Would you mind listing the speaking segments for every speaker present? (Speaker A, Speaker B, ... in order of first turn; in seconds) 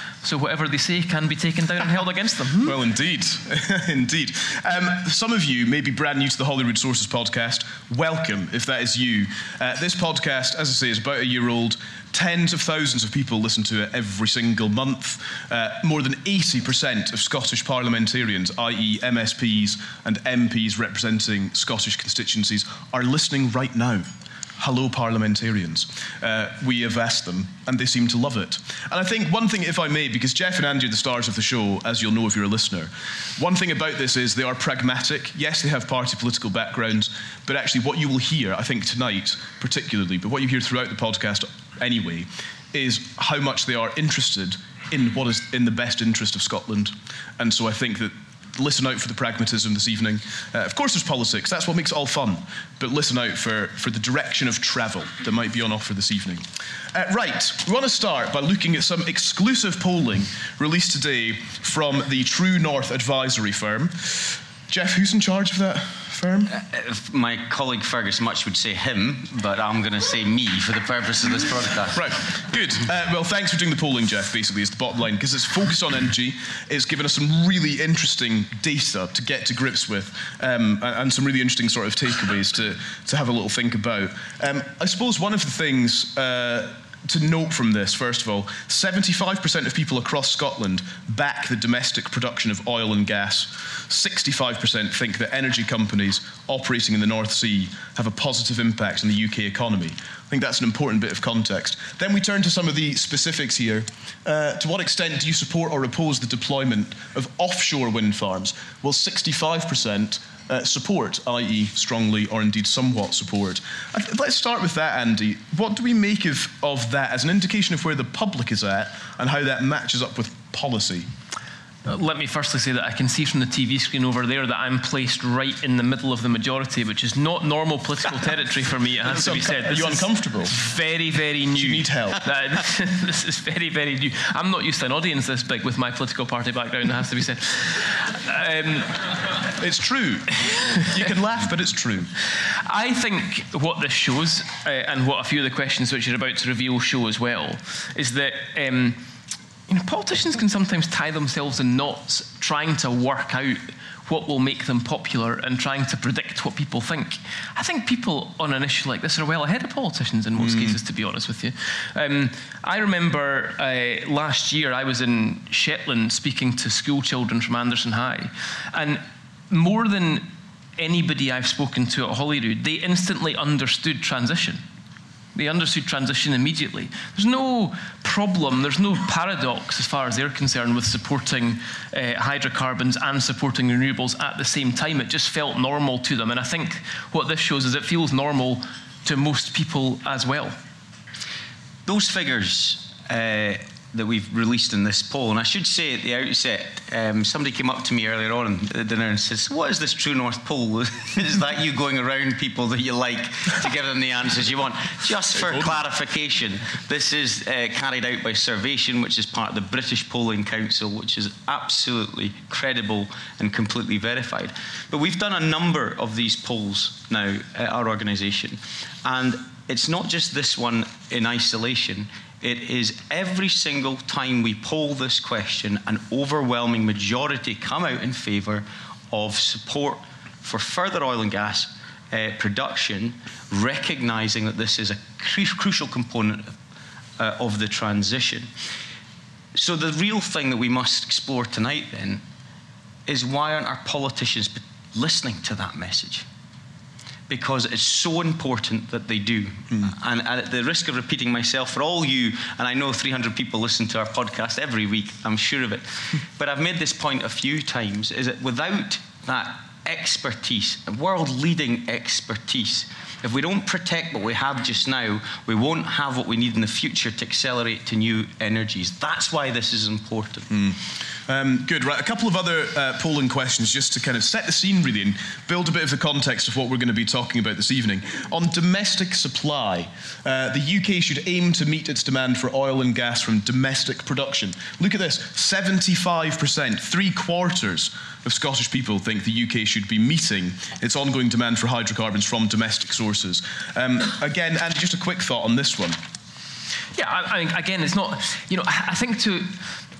Speaker A: 0.2-2.8, 121.8-139.0, 142.3-149.0, 149.7-174.6, 175.3-190.6, 296.9-299.7
Speaker B: 2.6-24.0, 24.6-66.5, 71.9-121.1, 129.0-130.5, 131.5-132.2, 139.6-142.1, 160.4-160.8, 270.5-296.0
Speaker C: 66.5-72.0, 191.8-236.6, 237.2-238.5, 239.5-242.2, 243.1-246.2, 247.3-270.5